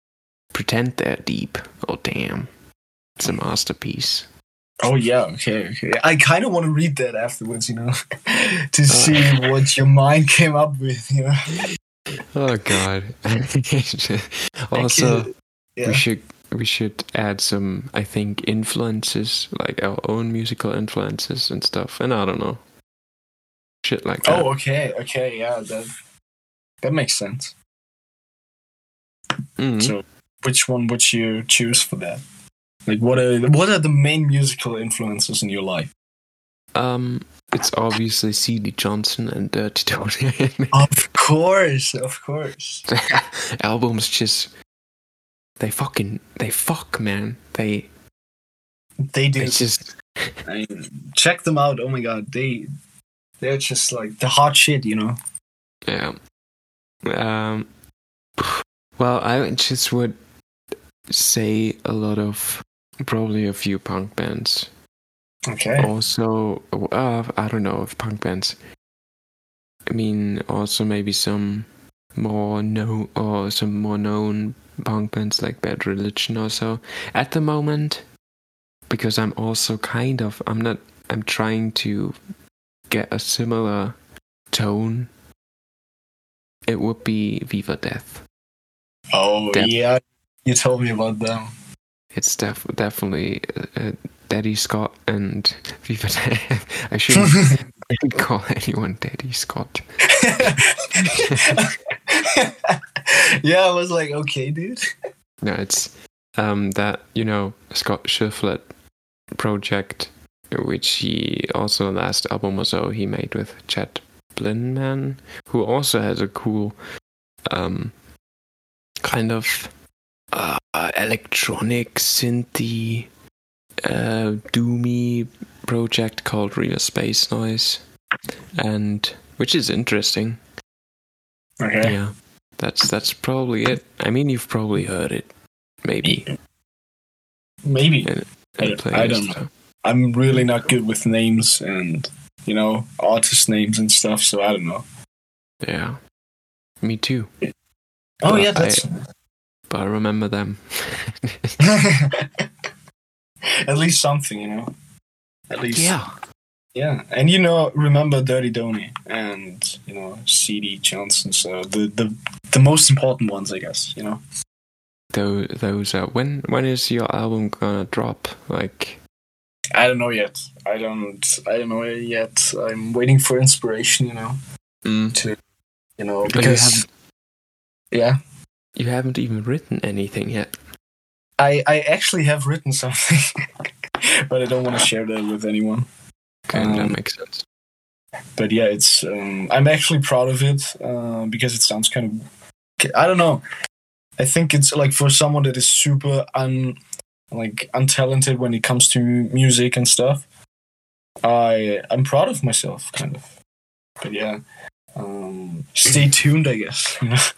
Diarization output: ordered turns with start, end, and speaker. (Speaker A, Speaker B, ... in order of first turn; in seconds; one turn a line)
Speaker A: 0.5-2.5
Speaker A: 3.2-4.3
Speaker B: 4.8-11.6
Speaker A: 8.9-9.5
Speaker A: 12.3-22.6
Speaker B: 14.7-16.1
Speaker A: 23.8-24.5
Speaker B: 24.2-25.9
Speaker B: 26.8-27.5
Speaker A: 29.6-29.9
Speaker B: 29.8-32.2
Speaker B: 32.9-35.9
Speaker A: 36.7-40.8
Speaker B: 40.7-42.9
Speaker A: 42.9-44.5
Speaker A: 45.6-47.9
Speaker B: 49.1-49.7
Speaker A: 49.4-50.4
Speaker B: 50.4-52.7
Speaker B: 53.4-55.1
Speaker A: 55.9-56.2
Speaker A: 57.0-57.7
Speaker A: 58.4-60.1
Speaker A: 61.1-64.7
Speaker B: 65.5-65.9
Speaker A: 65.8-68.6
Speaker A: 69.9-78.0
Speaker A: 78.9-82.2
Speaker A: 82.9-84.0
Speaker A: 84.5-85.1
Speaker A: 86.7-88.2
Speaker B: 89.1-91.5
Speaker A: 92.1-99.9
Speaker B: 100.2-104.8
Speaker A: 101.1-101.6
Speaker A: 105.4-108.7
Speaker A: 109.3-116.8
Speaker A: 117.5-118.0
Speaker A: 119.0-119.7
Speaker A: 120.3-123.1
Speaker A: 123.8-127.8
Speaker A: 128.6-130.4
Speaker B: 131.6-132.0
Speaker A: 131.8-135.3
Speaker A: 135.8-136.3
Speaker B: 137.6-144.8
Speaker A: 138.0-139.5
Speaker A: 145.6-146.0
Speaker A: 146.8-147.3
Speaker B: 148.2-148.9
Speaker A: 148.2-148.8
Speaker A: 149.7-151.6
Speaker B: 151.6-152.2
Speaker B: 153.7-154.7
Speaker B: 155.5-156.0
Speaker A: 155.7-156.1
Speaker B: 156.7-164.2
Speaker A: 165.1-169.0
Speaker B: 169.8-174.4
Speaker A: 174.8-175.2
Speaker B: 176.0-176.8
Speaker A: 176.3-176.8
Speaker B: 177.9-178.2
Speaker A: 178.8-180.5
Speaker B: 181.4-183.3
Speaker B: 184.3-185.8
Speaker A: 186.5-187.4
Speaker B: 186.5-187.0
Speaker B: 188.4-192.2
Speaker B: 192.8-193.4
Speaker B: 194.2-196.8
Speaker B: 197.3-200.2
Speaker B: 201.2-203.3
Speaker B: 204.0-204.4
Speaker B: 205.0-207.2